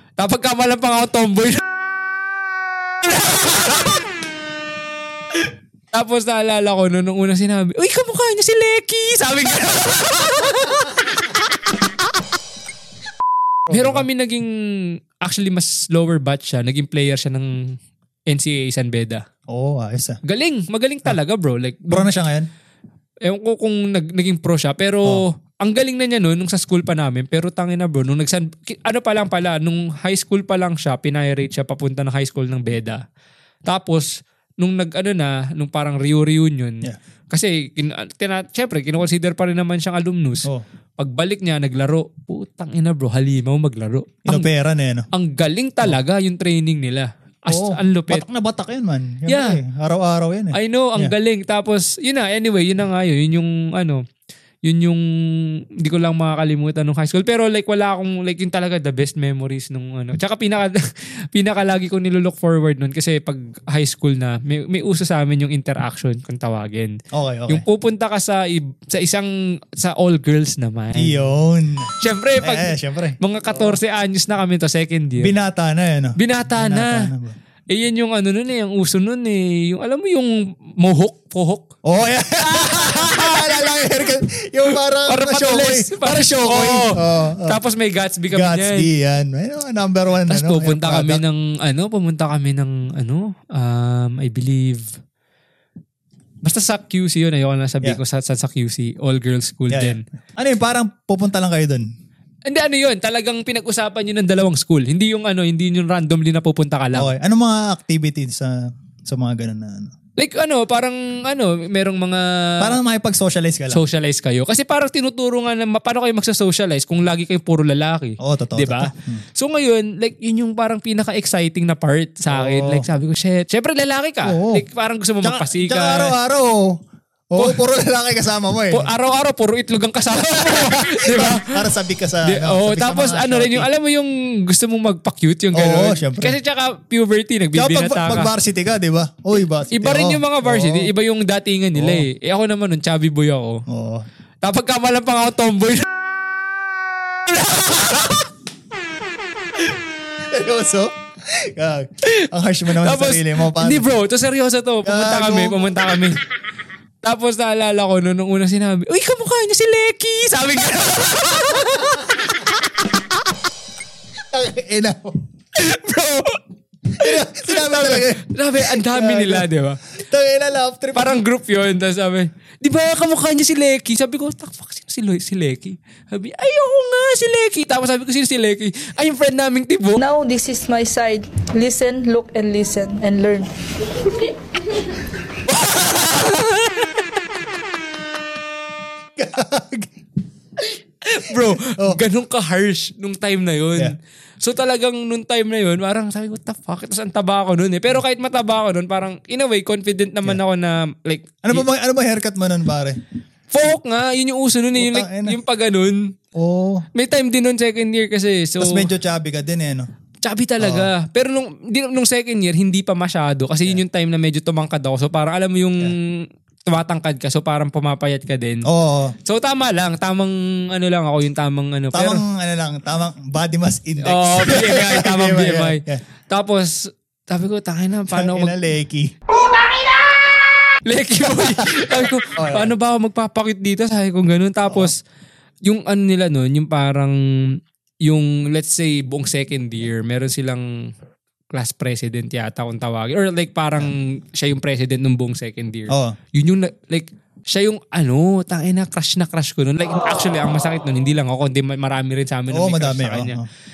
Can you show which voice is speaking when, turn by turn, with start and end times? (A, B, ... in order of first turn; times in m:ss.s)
0:00.2-0:01.6 A
0:03.0-0:04.0 A
0:05.3-0:12.2 A
0:13.7-0:14.0 B
0:13.7-0:17.5 A
0:18.3-0:19.2 A
0:19.5-0:20.2 B
0:20.2-0:22.1 A
0:21.9-0:22.5 B
0:23.2-0:33.0 A
0:33.7-0:44.5 A
0:44.2-0:45.1 B
0:45.1-0:48.2 A
0:47.5-0:51.1 B
0:49.3-0:49.6 A
0:50.5-0:54.0 A
0:54.6-0:55.0 A
0:55.8-1:07.0 A
1:07.1-1:07.6 B
1:07.5-1:11.2 A
1:10.9-1:13.8 B
1:12.0-1:15.3 A
1:15.2-1:17.3 B
1:16.2-1:17.1 A
1:17.7-1:21.6 A
1:21.8-1:27.6 B
1:22.5-1:23.8 A
1:25.0-1:28.9 A
1:28.3-1:31.2 B
1:30.3-1:34.9 A
1:36.4-1:40.0 A
1:39.7-1:41.8 B
1:42.5-1:47.1 A
1:46.9-1:49.9 B
1:50.2-1:52.7 A
1:52.6-1:53.8 B
1:53.7-2:06.1 A
1:58.2-1:59.2 B
2:02.3-2:02.9 B
2:04.2-2:04.6 B
2:05.2-2:06.8 B
2:07.3-2:08.9 B
2:08.7-2:11.6 A
2:10.4-2:13.7 B
2:12.3-2:18.3 A
2:15.5-2:16.4 B
2:17.5-2:20.9 B
2:19.7-2:23.6 A
2:21.8-2:22.1 B
2:23.7-2:24.0 B
2:24.4-2:25.9 A
2:27.2-2:28.3 A
2:30.2-2:33.9 B
2:32.0-2:36.2 A
2:34.8-2:35.6 B
2:37.0-2:43.0 A
2:41.6-2:42.2 B
2:44.3-2:45.2 B
2:45.5-2:46.4 A
2:46.9-2:51.2 B
2:47.0-2:49.8 A
2:50.9-3:00.0 A
3:00.0-3:03.5 C
3:04.0-3:04.3 C
3:05.4-3:07.4 A
3:09.2-3:09.9 B
3:10.6-3:21.6 A
3:11.3-3:12.0 B
3:21.4-3:23.0 B
3:23.5-3:26.1 A
3:24.7-3:25.4 B
3:26.3-3:26.8 B
3:26.9-3:28.9 A
3:28.6-3:29.9 B
3:30.2-3:38.6 A
3:30.6-3:30.9 B
3:38.6-3:39.1 B
3:39.2-3:42.2 A
3:41.9-3:46.0 B
3:44.0-3:48.6 A
3:48.1-3:49.1 B
3:50.8-3:55.0 A
3:51.4-3:52.7 B
3:54.7-3:54.9 B
3:55.6-4:00.9 A
4:01.5-4:13.4 A
4:05.9-4:06.2 B
4:12.5-4:13.5 B